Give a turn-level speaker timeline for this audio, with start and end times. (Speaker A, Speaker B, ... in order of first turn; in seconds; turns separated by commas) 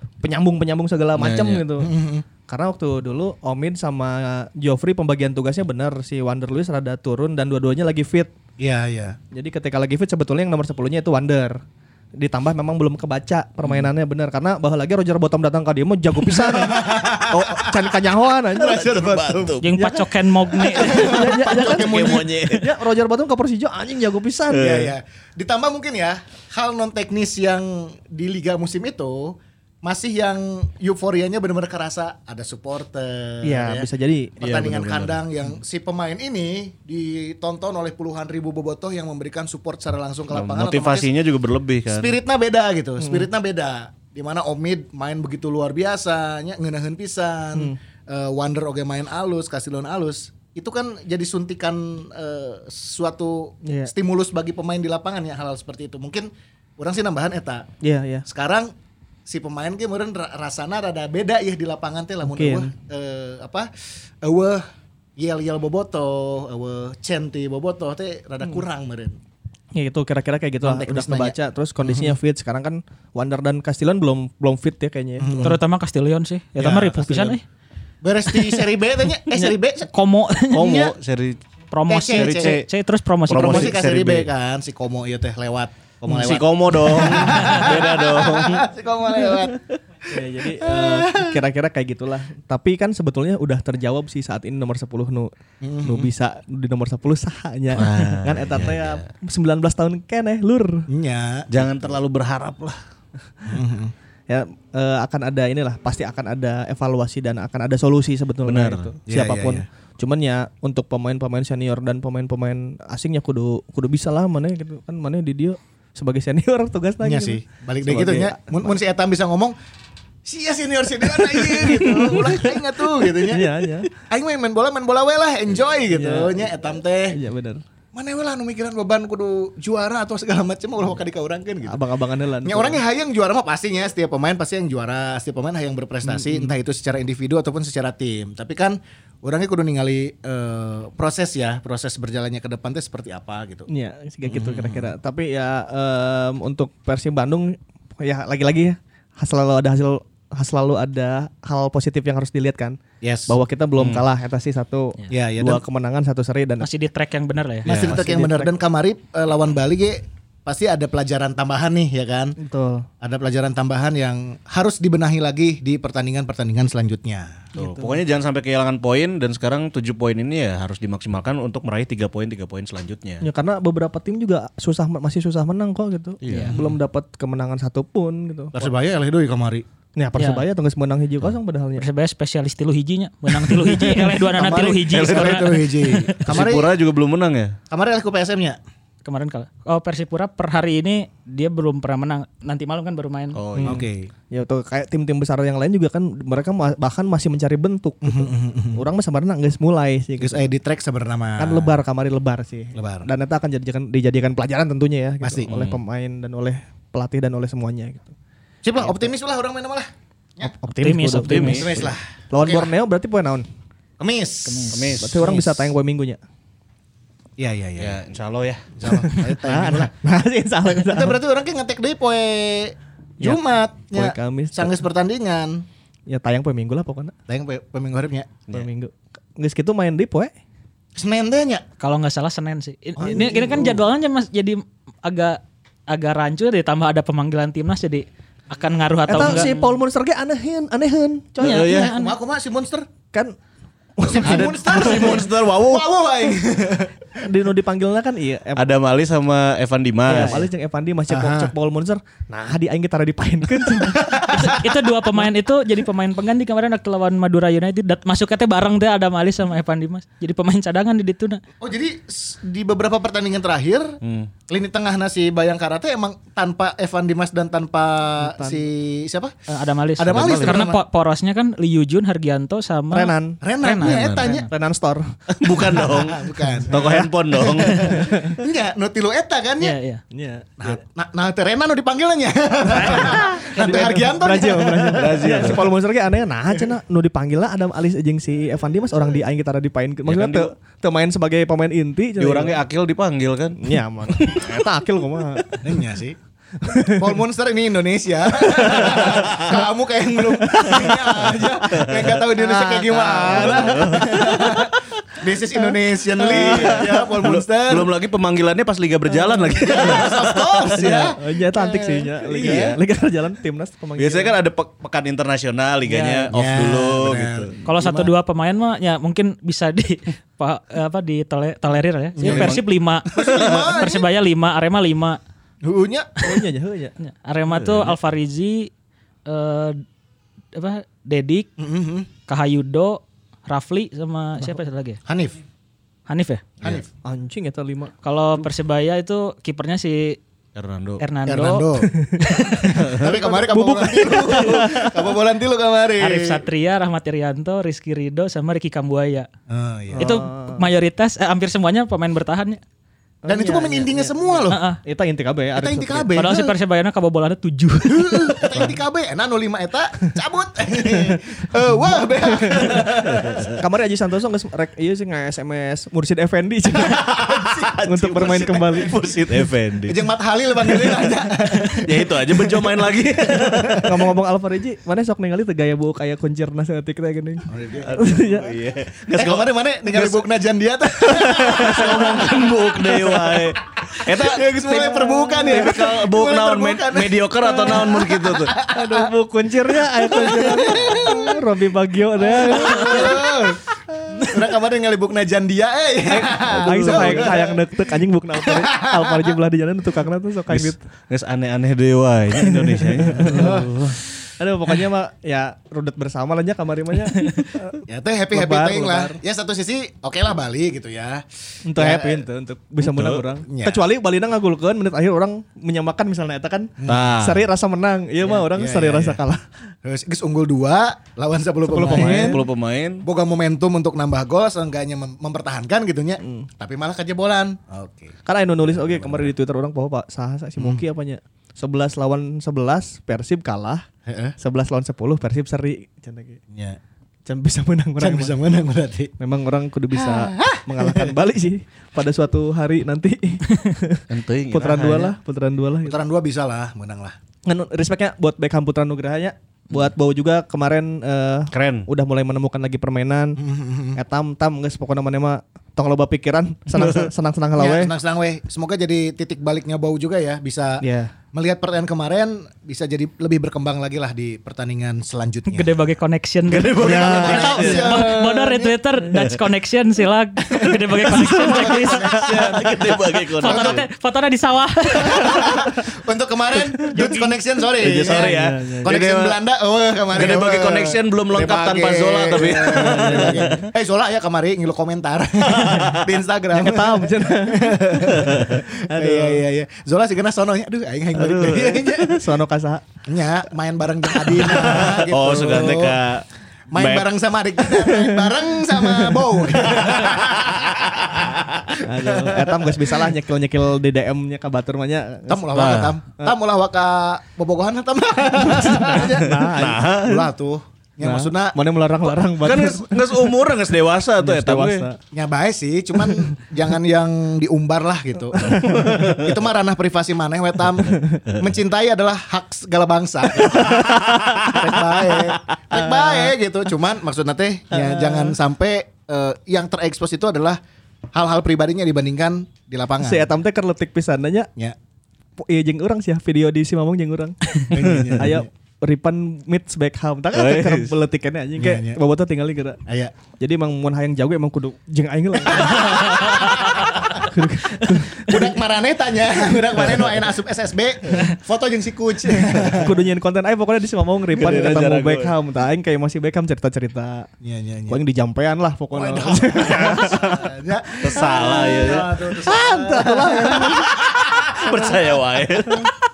Speaker A: 0.2-1.9, Speaker B: 1.2-1.7, Speaker C: 1.8-2.2, Speaker A: 2.5-8.3, Speaker C: 8.6-9.2, Speaker A: 9.3-11.6, Speaker A: 12.2-19.1, Speaker C: 16.4-18.0, Speaker C: 18.5-19.6, Speaker B: 18.8-19.7, Speaker D: 19.6-21.2, Speaker A: 19.8-24.9, Speaker C: 20.6-22.4, Speaker B: 21.5-22.7, Speaker C: 24.5-33.9, Speaker B: 24.5-24.9, Speaker A: 33.4-34.4, Speaker C: 34.4-41.1, Speaker B: 34.4-35.2, Speaker B: 40.3-42.1, Speaker C: 41.9-57.7, Speaker A: 43.0-43.3, Speaker A: 53.6-53.9, Speaker A: 57.8-58.3, Speaker C: 58.3-58.7, Speaker C: 59.3-63.7, Speaker A: 62.2-62.7, Speaker C: 64.2-64.6, Speaker C: 65.2-69.2, Speaker A: 69.7-75.5, Speaker C: 70.6-72.2, Speaker C: 75.2-75.6, Speaker D: 75.4-77.4, Speaker C: 76.6-77.3, Speaker C: 78.0-79.9, Speaker D: 79.9-80.9, Speaker B: 80.5-81.4, Speaker C: 80.5-80.9, Speaker D: 81.7-83.8, Speaker C: 81.9-82.6, Speaker B: 82.1-82.7, Speaker B: 83.3-84.3, Speaker C: 83.3-89.6, Speaker B: 86.1-88.7, Speaker A: 90.0-95.3, Speaker C: 90.6-91.4, Speaker C: 95.6-96.1, Speaker A: 95.8-100.9, Speaker B: 97.7-99.1, Speaker C: 100.9-101.7, Speaker B: 101.5-102.8, Speaker C: 103.5-103.9, Speaker A: 104.3-118.7, Speaker B: 108.5-108.9, Speaker C: 109.1-109.7, Speaker C: 117.0-119.5, Speaker C: 120.3-127.2, Speaker A: 121.2-123.9, Speaker A: 125.9-126.5, Speaker A: 127.1-127.6, Speaker C: 128.0-131.8, Speaker A: 131.7-132.8, Speaker C: 132.4-143.7, Speaker A: 136.1-136.6, Speaker A: 143.7-156.7, Speaker C: 144.2-144.9, Speaker C: 153.0-153.3, Speaker B: 153.8-154.0, Speaker C: 155.1-155.6, Speaker D: 156.6-157.7, Speaker C: 157.7-162.4, Speaker B: 157.7-158.0, Speaker A: 157.7-158.5, Speaker A: 162.4-162.9, Speaker C: 163.0-167.4, Speaker A: 167.6-168.0, Speaker B: 167.6-173.2, Speaker A: 173.2-178.7, Speaker B: 176.2-176.6, Speaker C: 178.5-179.7, Speaker A: 180.0-181.9, Speaker D: 180.2-180.4, Speaker D: 181.8-186.4, Speaker C: 184.2-186.8, Speaker B: 184.9-187.5, Speaker C: 187.7-188.6, Speaker D: 189.1-193.4, Speaker B: 193.3-193.8, Speaker A: 193.6-200.5, Speaker C: 193.6-194.1, Speaker C: 198.0-198.8, Speaker C: 200.2-201.8, Speaker A: 201.4-208.1, Speaker C: 202.7-203.1, Speaker C: 205.2-205.5, Speaker B: 205.5-205.8, Speaker C: 208.6-210.5, Speaker A: 208.8-209.1, Speaker A: 210.4-211.8, Speaker D: 210.7-211.9, Speaker B: 211.2-211.9, Speaker C: 211.5-212.7, Speaker A: 212.3-213.5, Speaker C: 214.0-214.8, Speaker D: 214.4-215.0, Speaker B: 214.7-215.7, Speaker A: 215.0-216.2, Speaker C: 217.4-218.0, Speaker B: 217.8-218.7, Speaker C: 218.8-219.9, Speaker A: 218.9-221.2, Speaker C: 220.8-225.7, Speaker A: 223.2-224.8, Speaker A: 226.1-227.1, Speaker C: 227.3-228.3, Speaker A: 228.5-230.3, Speaker C: 231.0-231.6, Speaker D: 231.8-239.8, Speaker C: 233.0-233.8, Speaker A: 233.0-233.8, Speaker A: 239.1-241.8, Speaker D: 241.4-242.2, Speaker B: 241.4-242.0, Speaker C: 241.8-242.9, Speaker A: 244.0-245.2, Speaker B: 244.1-245.9, Speaker C: 244.1-247.1, Speaker A: 247.2-248.7, Speaker B: 248.6-250.5, Speaker A: 250.1-254.4, Speaker C: 251.1-251.5, Speaker C: 253.8-254.6, Speaker D: 254.3-261.4, Speaker C: 261.6-264.0, Speaker B: 264.0-264.3, Speaker C: 264.5-269.3, Speaker A: 268.2-268.6, Speaker D: 269.5-274.4, Speaker C: 270.0-270.8, Speaker B: 270.1-270.6, Speaker A: 272.9-273.4, Speaker C: 273.4-274.5, Speaker B: 273.8-274.4, Speaker A: 274.2-275.6, Speaker B: 275.4-278.1, Speaker C: 275.4-276.8, Speaker A: 276.7-278.4, Speaker D: 277.5-277.9, Speaker C: 277.6-279.8, Speaker D: 279.6-280.0, Speaker A: 280.1-280.8, Speaker C: 280.6-285.6, Speaker A: 282.7-292.6, Speaker D: 283.6-284.0, Speaker B: 284.9-285.7, Speaker B: 290.1-290.5, Speaker B: 292.2-294.7, Speaker A: 293.6-295.6, Speaker C: 295.6-296.2, Speaker A: 296.6-297.1, Speaker C: 296.9-307.9, Speaker A: 298.6-299.1, Speaker B: 299.0-299.5, Speaker A: 300.4-300.9, Speaker B: 301.7-302.2, Speaker A: 302.4-304.7, Speaker B: 303.2-304.4, Speaker A: 305.6-306.9, Speaker B: 306.4-311.0, Speaker A: 309.3-310.1, Speaker C: 309.6-312.6, Speaker A: 310.8-314.4, Speaker B: 312.3-312.8, Speaker B: 314.0-317.6, Speaker D: 315.9-316.3, Speaker C: 316.3-317.5, Speaker D: 317.6-325.2, Speaker A: 317.6-318.1, Speaker C: 322.2-324.1, Speaker B: 322.2-322.6, Speaker B: 323.2-323.7, Speaker C: 325.6-326.2, Speaker A: 326.2-326.9, Speaker D: 327.0-328.7, Speaker B: 327.5-328.0, Speaker D: 329.3-329.8, Speaker D: 330.5-331.5, Speaker C: 331.6-332.1, Speaker D: 332.3-335.0, Speaker C: 335.1-335.4, Speaker D: 336.1-336.5, Speaker C: 336.6-336.9, Speaker A: 337.0-337.9, Speaker D: 338.0-340.2, Speaker B: 340.6-341.0, Speaker D: 341.0-342.9, Speaker C: 341.3-341.9, Speaker A: 341.9-345.1, Speaker C: 342.5-346.5, Speaker D: 346.0-349.3, Speaker C: 349.5-350.2, Speaker A: 350.0-350.7, Speaker D: 350.0-352.6, Speaker A: 353.2-356.2, Speaker C: 353.3-354.6, Speaker D: 354.5-354.8, Speaker C: 355.6-356.6, Speaker D: 356.1-358.6, Speaker C: 357.9-363.5, Speaker A: 361.7-362.9, Speaker B: 363.1-363.5, Speaker A: 363.6-367.2, Speaker B: 366.9-370.0, Speaker A: 367.9-369.1, Speaker C: 369.9-372.7, Speaker B: 371.8-374.0, Speaker C: 373.5-373.8, Speaker A: 373.8-378.5, Speaker C: 377.5-378.0, Speaker B: 377.8-380.2, Speaker C: 379.2-389.1, Speaker B: 381.1-384.5, Speaker A: 381.6-381.9, Speaker A: 384.7-385.7, Speaker B: 385.4-388.5, Speaker A: 388.7-393.3, Speaker C: 389.8-391.4, Speaker C: 392.2-393.6, Speaker A: 394.1-394.4, Speaker C: 394.2-397.9, Speaker A: 396.1-400.8, Speaker C: 398.4-399.3, Speaker B: 400.5-403.7, Speaker A: 402.4-409.2, Speaker C: 403.3-403.7, Speaker C: 407.9-412.3, Speaker A: 411.6-419.5, Speaker B: 412.8-413.3, Speaker C: 413.5-413.8, Speaker C: 416.8-417.1, Speaker B: 416.9-417.4, Speaker C: 418.2-419.2, Speaker C: 419.8-422.4, Speaker A: 421.7-422.4, Speaker B: 421.8-423.0, Speaker C: 423.0-428.1, Speaker A: 426.2-426.5, Speaker A: 428.3-433.9, Speaker B: 428.8-429.3, Speaker C: 434.1-434.4, Speaker A: 434.4-436.4, Speaker C: 436.5-436.8, Speaker A: 437.3-438.4, Speaker C: 438.0-439.1, Speaker A: 439.2-446.0, Speaker C: 440.0-441.1, Speaker B: 444.1-445.1, Speaker C: 445.9-447.2, Speaker A: 447.5-453.4, Speaker B: 451.5-451.9, Speaker C: 453.4-454.0, Speaker A: 453.9-457.9, Speaker B: 456.7-457.1, Speaker C: 457.6-465.8, Speaker A: 460.8-461.1, Speaker D: 465.5-472.8, Speaker B: 466.5-468.1, Speaker C: 466.8-468.8, Speaker A: 466.8-467.5, Speaker C: 470.5-473.8, Speaker B: 471.0-473.8, Speaker D: 473.4-475.7, Speaker C: 474.9-492.3, Speaker D: 476.9-477.4, Speaker B: 477.8-479.4, Speaker A: 478.0-478.9, Speaker B: 480.1-483.6, Speaker A: 482.5-483.7, Speaker B: 485.5-486.1, Speaker A: 486.5-489.4, Speaker B: 488.2-488.5, Speaker B: 491.2-491.9, Speaker A: 491.5-492.9, Speaker C: 493.1-496.0, Speaker B: 494.3-497.1, Speaker C: 496.7-503.1, Speaker A: 497.9-499.9, Speaker A: 501.8-505.4, Speaker C: 505.3-511.6, Speaker B: 505.6-506.0, Speaker A: 508.4-509.8, Speaker B: 509.4-510.3, Speaker A: 511.0-513.4, Speaker B: 512.4-514.9, Speaker A: 514.2-515.0, Speaker C: 515.1-530.6, Speaker A: 518.4-519.0, Speaker B: 518.5-519.3, Speaker A: 523.4-526.3, Speaker A: 527.7-528.4, Speaker C: 531.1-533.3, Speaker A: 533.0-534.5, Speaker A: 535.4-537.5, Speaker C: 537.7-538.5, Speaker B: 537.8-538.1, Speaker A: 538.1-542.8, Speaker B: 540.3-541.0, Speaker C: 541.6-542.0, Speaker C: 542.9-543.1, Speaker A: 543.4-548.6, Speaker C: 545.5-547.2, Speaker C: 547.9-553.0, Speaker A: 552.7-557.3, Speaker B: 554.3-555.3, Speaker C: 557.4-558.0, Speaker A: 557.9-560.5, Speaker C: 558.9-565.2, Speaker B: 561.0-562.1, Speaker A: 562.4-563.9, Speaker B: 564.5-565.9